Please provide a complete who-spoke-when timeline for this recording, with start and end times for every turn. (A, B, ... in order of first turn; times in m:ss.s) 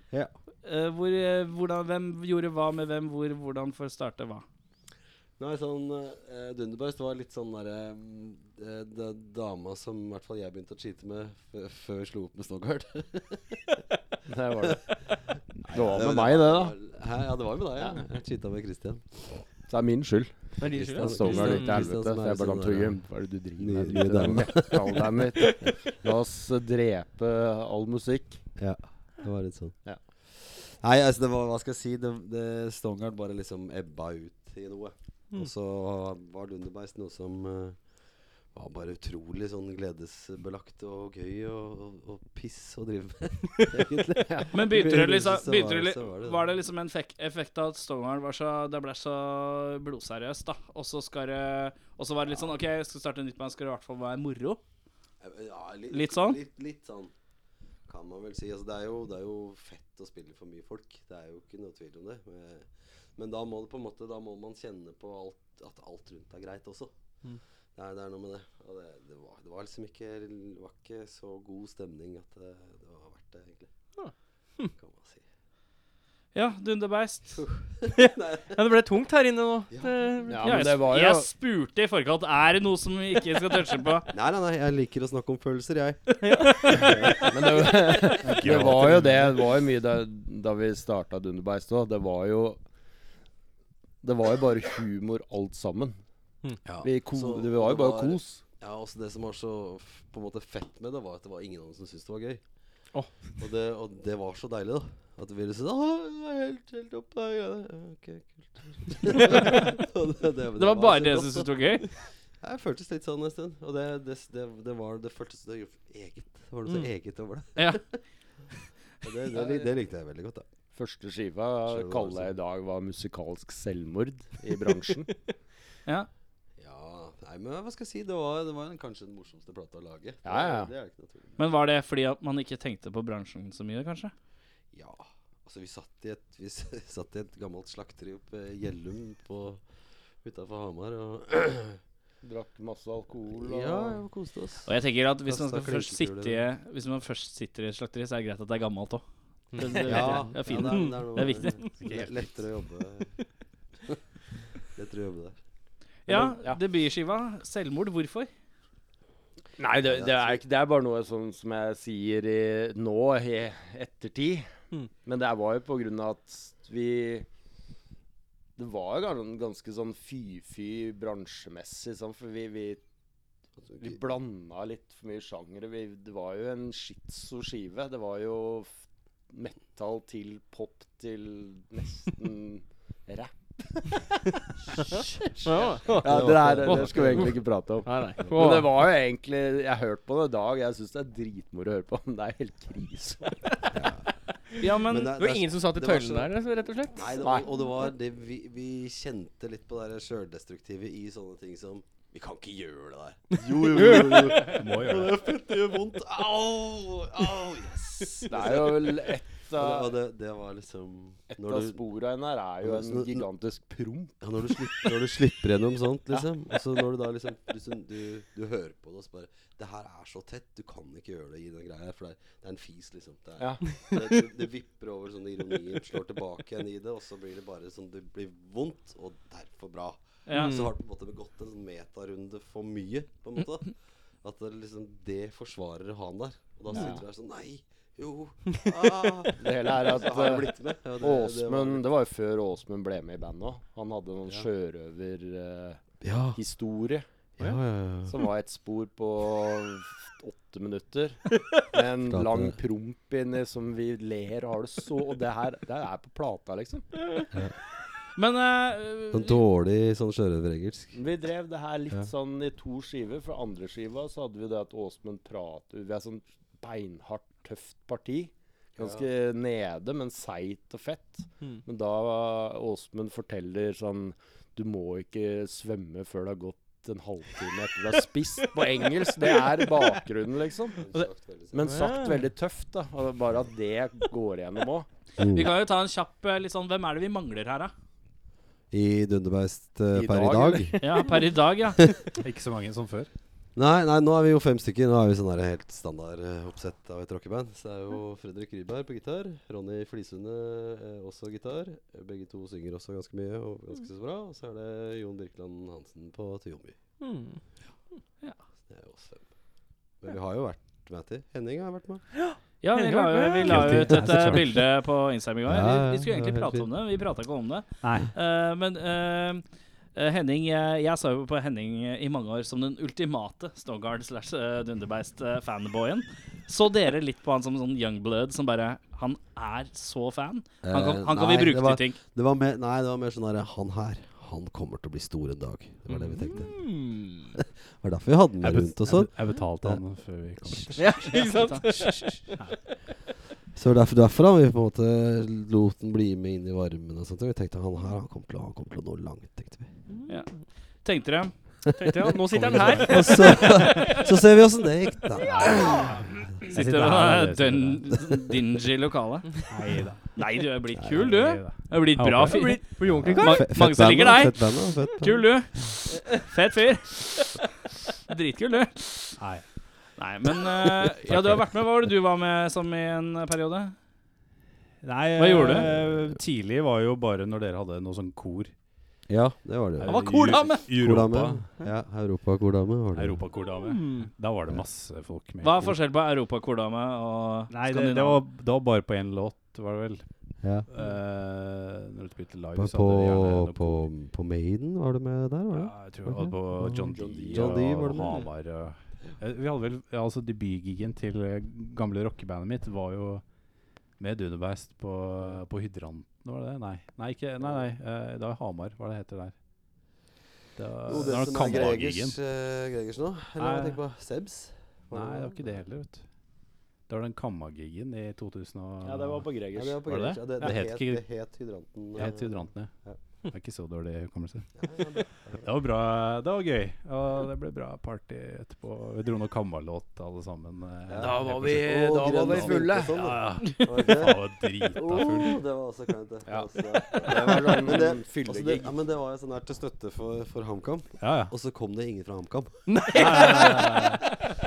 0:00.6-0:04.4 A
0:05.4-0:13.8 B
0:14.2-0:15.0 C
0:15.6-0:19.4 B
0:15.6-0:16.8 C
0:17.8-0:18.0 C
0:19.6-0:28.4 C
0:20.6-0:21.8 D
0:20.6-0:25.7 B
0:28.6-0:46.5 B
0:44.5-0:54.6 A
0:55.2-0:57.1 B
0:55.9-0:56.4 A
0:57.9-1:06.9 B
1:07.7-1:13.7 B
1:14.0-1:14.7 D
1:14.8-1:15.2 B
1:16.3-1:17.4 A
1:17.4-1:18.5 B
1:17.9-1:20.5 D
1:19.7-1:20.2 B
1:20.2-1:21.3 C
1:20.4-1:24.1 A
1:24.1-1:29.1 B
1:26.2-1:27.3 D
1:27.3-1:32.6 C
1:28.2-1:29.3 E
1:34.0-1:36.0 C
1:36.6-1:42.4 B
1:36.8-1:38.4 C
1:43.4-1:58.0 B
1:50.6-1:51.8 A
1:57.6-1:57.8 A
1:59.0-2:00.4 B
2:00.7-2:05.1 C
2:01.7-2:02.3 B
2:06.6-2:11.4 B
2:10.2-2:10.7 C
2:11.4-2:14.1 A
2:14.7-2:19.6 B
2:20.2-2:21.8 B
2:22.2-2:24.0 C
2:23.3-2:26.4 B
2:24.6-2:31.6 A
2:29.6-2:30.9 D
2:29.8-2:33.1 B
2:31.8-2:32.1 E
2:34.7-2:35.4 B
2:36.1-2:38.3 A
2:36.1-2:36.6 C
2:39.6-2:44.5 C
2:39.9-2:40.4 B
2:45.0-2:47.3 C
2:48.6-2:52.8 C
2:53.6-2:53.9 B
2:53.8-3:04.0 C
3:04.7-3:13.4 C
3:04.9-3:07.3 D
3:05.9-3:07.4 B
3:07.8-3:08.8 D
3:13.7-3:14.1 B
3:14.6-3:15.2 A
3:14.8-3:16.4 B
3:15.2-3:17.1 D
3:16.9-3:31.8 B
3:17.2-3:17.5 C
3:23.3-3:24.5 D
3:23.6-3:24.5 C
3:24.5-3:25.2 E
3:28.2-3:30.0 C
3:31.3-3:35.0 C
3:32.6-3:33.2 B
3:34.2-4:01.8 B
3:43.4-3:43.8 C
3:50.2-3:50.6 A
3:50.3-3:50.7 D
3:56.7-3:57.0 C
3:59.4-4:05.8 C
4:06.0-4:06.4 B
4:06.3-4:07.1 C
4:07.4-4:08.2 B
4:08.0-4:16.9 C
4:12.1-4:12.5 B
4:18.2-4:19.4 A
4:19.1-4:20.9 B
4:20.9-4:44.9 C
4:28.8-4:29.0 B
4:39.1-4:40.0 D
4:40.8-4:41.8 B
4:41.6-4:42.2 D
4:45.2-4:45.5 B
4:45.3-4:47.7 A
4:48.7-4:51.0 B
4:49.9-4:50.8 C
4:50.8-4:51.8 A
4:52.2-4:53.1 E
4:53.6-5:06.8 B
5:07.0-5:07.4 D
5:08.7-5:09.3 B
5:10.0-5:12.0 B
5:12.1-5:13.8 D
5:12.6-5:32.0 A
5:13.4-5:14.6 E
5:15.4-5:16.7 B
5:17.8-5:18.1 E
5:30.6-5:36.5 B
5:36.2-5:37.3 D
5:37.3-5:39.8 B
5:38.4-5:41.3 E
5:40.8-5:42.4 D
5:41.1-5:41.9 A
5:43.5-5:49.7 B
5:49.9-5:50.4 D
5:50.1-5:51.3 A
5:51.8-5:54.1 D
5:52.3-5:53.5 E
5:52.8-5:55.9 B
5:55.2-5:57.9 E
5:56.3-5:59.5 A
5:59.5-6:00.1 E
6:00.2-6:07.4 A
6:00.8-6:03.0 E
6:02.3-6:03.4 D
6:02.9-6:05.3 B
6:08.1-6:09.2 A
6:09.2-6:09.4 E
6:10.0-6:13.7 A
6:11.0-6:11.5 E
6:14.8-6:18.5 E
6:15.2-6:15.7 A
6:15.6-6:16.2 B
6:19.1-6:23.2 B
6:19.8-6:21.4 E
6:19.8-6:20.6 A
6:22.9-6:25.8 E
6:23.4-6:24.1 D
6:25.4-6:28.2 A
6:27.5-6:33.9 E
6:30.4-6:30.7 B
6:32.5-6:38.3 B
6:35.5-6:43.2 E
6:36.8-6:38.3 C
6:44.0-6:49.3 E
6:50.6-6:52.2 E
6:50.8-6:55.6 B
6:53.4-6:53.8 E
6:54.9-6:56.0 E
6:56.9-6:59.3 E
6:58.8-6:59.8 C
6:59.6-7:03.0 B
6:59.8-7:01.0 E
7:01.9-7:02.7 E
7:03.3-7:04.5 E
7:04.6-7:05.5 B
7:05.4-7:11.7 E
7:10.9-7:23.9 B
7:11.0-7:13.1 C
7:12.3-7:15.4 E
7:16.2-7:18.7 C
7:21.0-7:21.3 E
7:22.7-7:23.8 D
7:22.9-7:24.0 E